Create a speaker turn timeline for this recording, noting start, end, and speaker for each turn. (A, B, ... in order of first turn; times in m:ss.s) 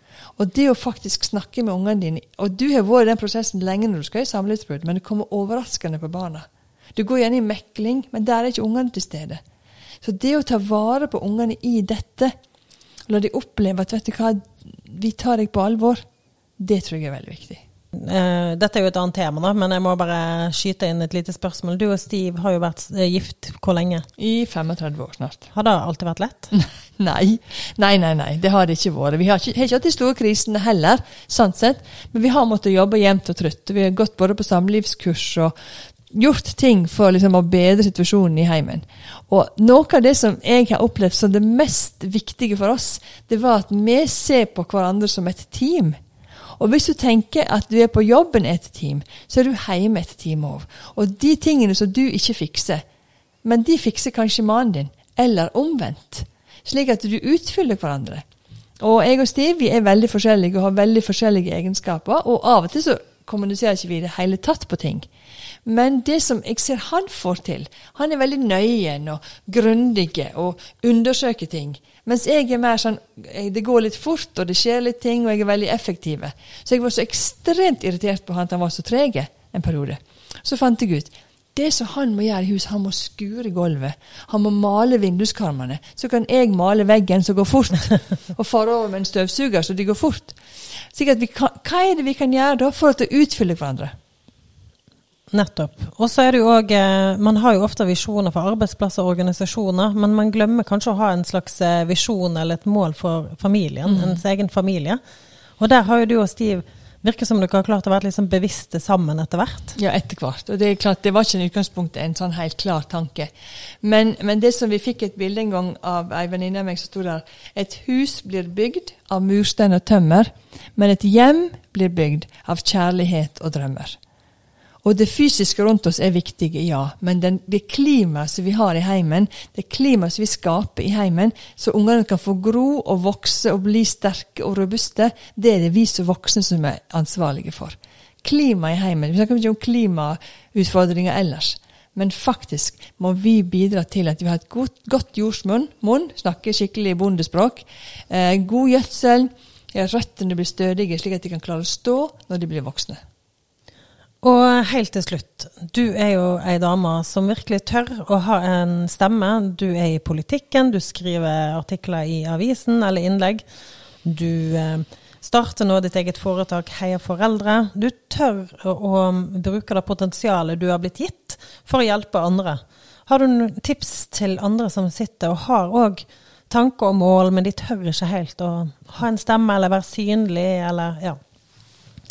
0:00.4-0:09.4 A
0:10.0-0:12.4 A
0:13.1-0:16.0 A
0:16.6-0:17.6 A
0:17.9-0:24.1 B
0:24.2-0:25.5 A
0:25.5-0:26.5 B
0:26.5-0:35.5 A
0:36.1-0:46.0 A
0:46.6-0:52.8 A
0:53.4-0:58.2 A
0:58.8-1:05.1 A
1:05.6-1:30.4 A
1:30.9-1:33.9 A
1:35.3-1:45.0 B
1:43.8-1:44.2 A
1:45.6-1:49.8 B
1:49.8-1:53.3 A
1:53.8-2:04.0 A
2:04.8-2:33.0 A
2:34.2-2:43.4 B
2:44.0-3:01.2 B